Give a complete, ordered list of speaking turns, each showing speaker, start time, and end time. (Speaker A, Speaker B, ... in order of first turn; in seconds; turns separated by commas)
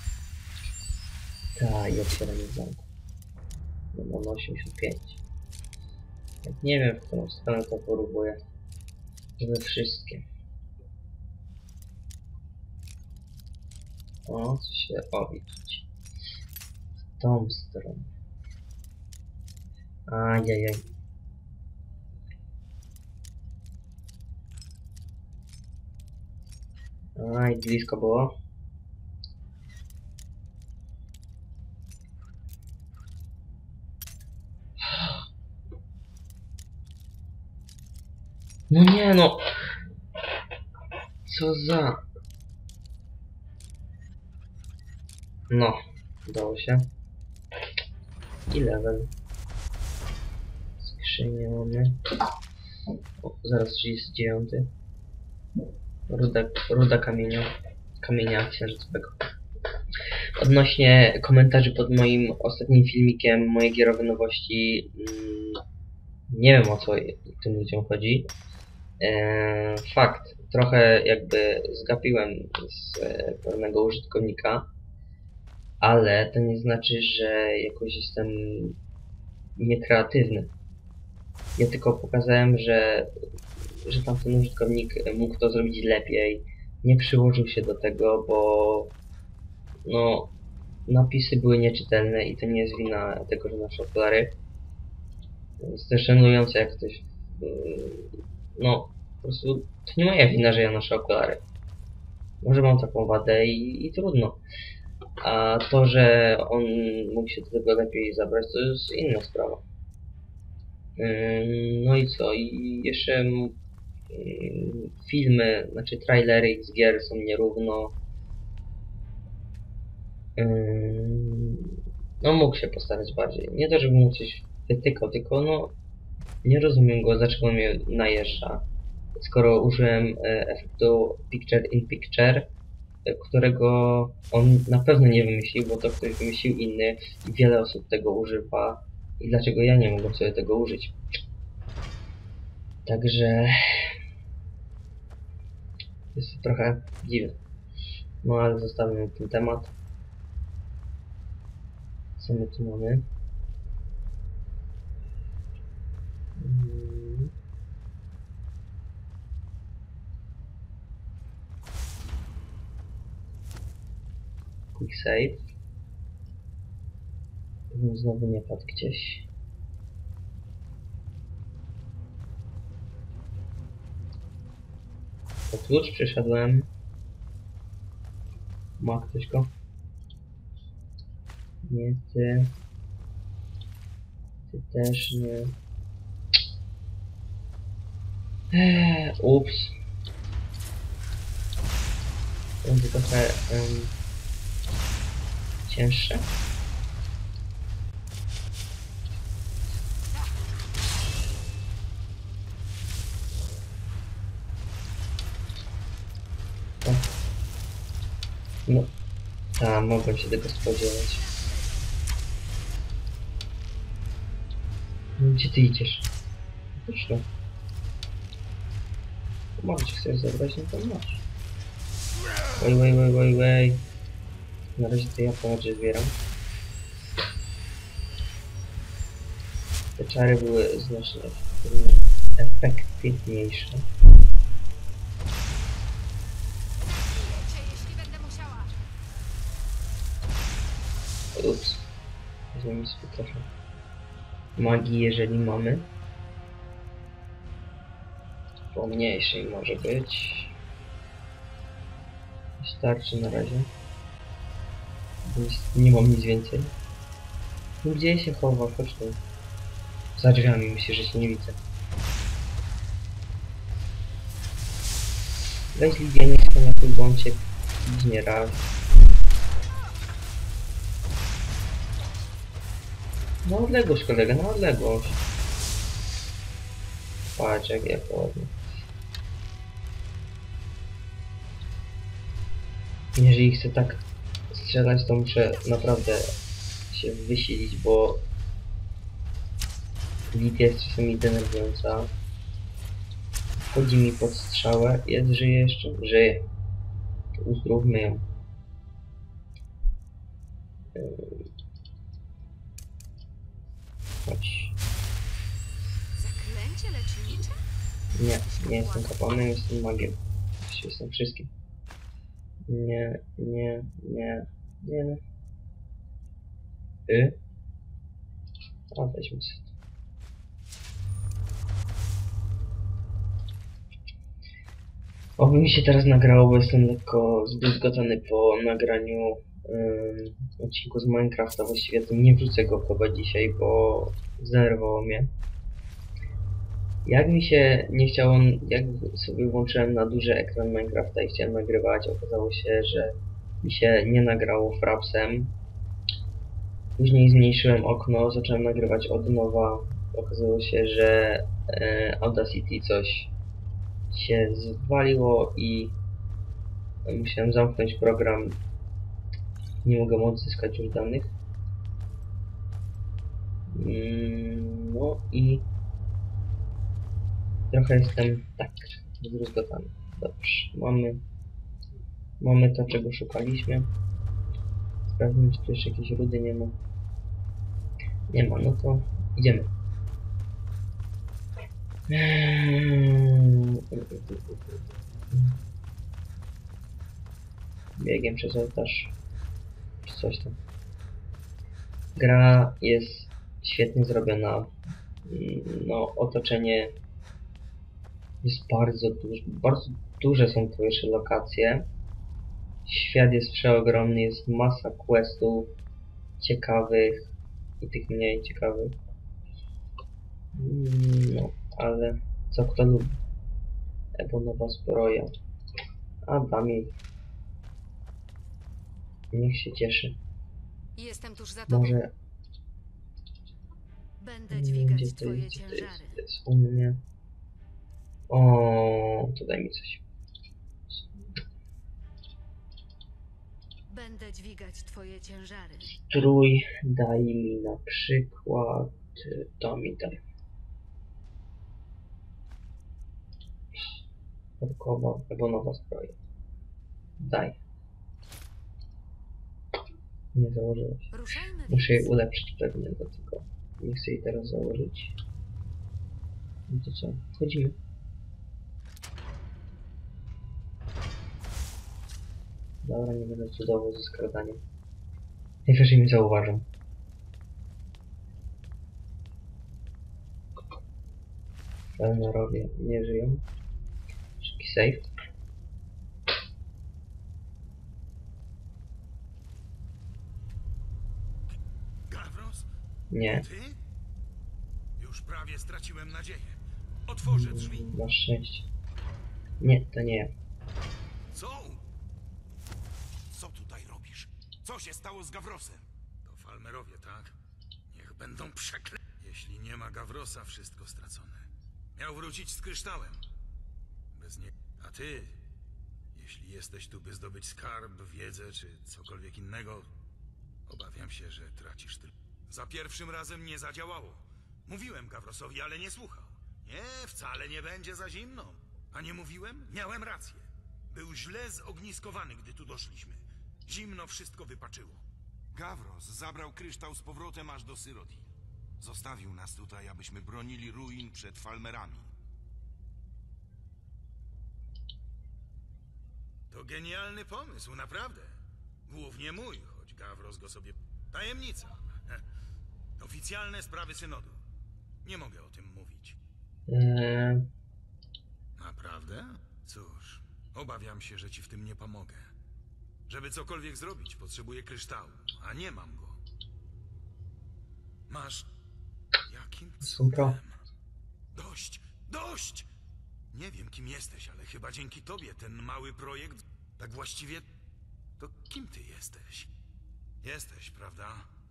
Speaker A: 1.6-2.8, Speaker A: 3.9-5.2, Speaker A: 6.4-8.4, Speaker A: 9.4-10.2, Speaker A: 14.2-15.8, Speaker A: 17.2-18.1, Speaker A: 20.1-20.8, Speaker A: 27.2-28.3, Speaker A: 38.7-39.5, Speaker A: 41.2-42.0, Speaker A: 45.5-46.9, Speaker A: 48.5-49.1, Speaker A: 50.8-52.0, Speaker A: 53.2-54.7, Speaker A: 56.1-57.5, Speaker A: 58.0-59.3, Speaker A: 60.4-65.6, Speaker A: 66.3-68.3, Speaker A: 69.0-74.7, Speaker A: 75.8-78.8, Speaker A: 79.6-80.5, Speaker A: 81.6-83.1, Speaker A: 83.8-88.9, Speaker A: 89.8-90.3, Speaker A: 90.9-94.4, Speaker A: 95.6-101.4, Speaker A: 102.4-104.4, Speaker A: 105.2-109.6, Speaker A: 111.0-113.5, Speaker A: 114.1-117.9, Speaker A: 120.4-125.7, Speaker A: 126.4-128.6, Speaker A: 129.1-132.5, Speaker A: 133.0-140.9, Speaker A: 142.8-143.9, Speaker A: 146.1-147.3, Speaker A: 148.2-149.7, Speaker A: 152.2-153.1, Speaker A: 156.4-157.3, Speaker A: 164.7-165.4, Speaker A: 167.7-169.2, Speaker A: 175.5-176.7, Speaker A: 178.8-179.5, Speaker A: 181.6-182.5, Speaker A: 184.5-185.6, Speaker A: 188.5-189.7, Speaker A: 192.6-193.9, Speaker A: 195.7-196.2, Speaker A: 208.7-208.9, Speaker A: 209.6-211.2, Speaker A: 215.2-216.1, Speaker A: 216.8-217.2, Speaker A: 219.6-221.2, Speaker A: 222.6-223.8, Speaker A: 224.8-226.1, Speaker A: 230.0-233.8, Speaker B: 236.8-238.7, Speaker A: 241.3-241.8, Speaker A: 242.5-243.4, Speaker A: 244.6-245.9, Speaker A: 248.7-250.5, Speaker A: 252.6-253.7, Speaker A: 255.2-256.7, Speaker A: 257.8-259.2, Speaker A: 260.2-261.6, Speaker A: 265.7-268.7, Speaker A: 273.4-275.2, Speaker A: 277.3-278.5, Speaker A: 283.1-286.3, Speaker A: 286.9-288.2, Speaker A: 290.3-292.1, Speaker A: 293.7-296.4, Speaker A: 297.4-298.2, Speaker A: 300.9-301.4, Speaker A: 304.2-304.7, Speaker B: 306.1-307.6, Speaker A: 308.1-311.5, Speaker B: 308.6-309.1, Speaker A: 312.7-315.2, Speaker A: 317.1-317.4, Speaker A: 318.9-319.7, Speaker A: 325.4-335.3, Speaker A: 337.0-345.5, Speaker A: 347.0-353.3, Speaker A: 354.1-355.9, Speaker A: 357.0-358.6, Speaker A: 359.8-361.3, Speaker A: 363.7-365.6, Speaker A: 367.7-371.2, Speaker A: 372.4-373.9, Speaker A: 375.2-376.8, Speaker A: 378.3-379.7, Speaker A: 382.1-384.2, Speaker A: 385.3-385.6, Speaker A: 388.0-389.1, Speaker A: 390.0-390.6, Speaker A: 392.1-394.7, Speaker A: 395.2-396.9, Speaker A: 398.4-401.9, Speaker A: 402.9-405.7, Speaker A: 406.4-407.2, Speaker A: 407.8-408.9, Speaker A: 410.5-413.2, Speaker A: 414.2-415.3, Speaker A: 416.2-416.9, Speaker A: 419.3-420.2, Speaker B: 420.9-422.0, Speaker A: 421.7-422.1, Speaker B: 424.2-426.2, Speaker A: 424.5-427.0, Speaker A: 428.3-430.0, Speaker B: 433.9-435.9, Speaker A: 435.9-440.2, Speaker A: 444.6-446.1, Speaker A: 447.2-447.6, Speaker A: 450.3-451.1, Speaker B: 451.1-452.1, Speaker A: 451.7-455.1, Speaker A: 456.7-457.8, Speaker A: 462.8-464.6, Speaker A: 465.6-466.6, Speaker A: 472.0-473.4, Speaker A: 474.4-475.1, Speaker C: 482.1-482.7, Speaker A: 483.1-483.4, Speaker C: 483.2-483.8, Speaker C: 485.0-487.9, Speaker A: 487.2-488.7, Speaker A: 489.6-490.3, Speaker C: 491.3-491.8, Speaker C: 493.3-497.3, Speaker C: 497.9-503.2, Speaker C: 504.1-505.4, Speaker C: 506.1-509.9, Speaker C: 510.6-532.1, Speaker C: 536.5-538.3, Speaker C: 538.9-542.2, Speaker C: 543.0-544.4, Speaker C: 545.0-546.2, Speaker A: 546.7-547.5, Speaker C: 548.6-552.3, Speaker C: 553.1-556.2, Speaker C: 558.1-558.5, Speaker C: 559.3-560.6, Speaker A: 559.8-560.4, Speaker C: 561.3-562.7, Speaker C: 563.3-567.5, Speaker C: 568.2-569.5, Speaker C: 570.2-571.3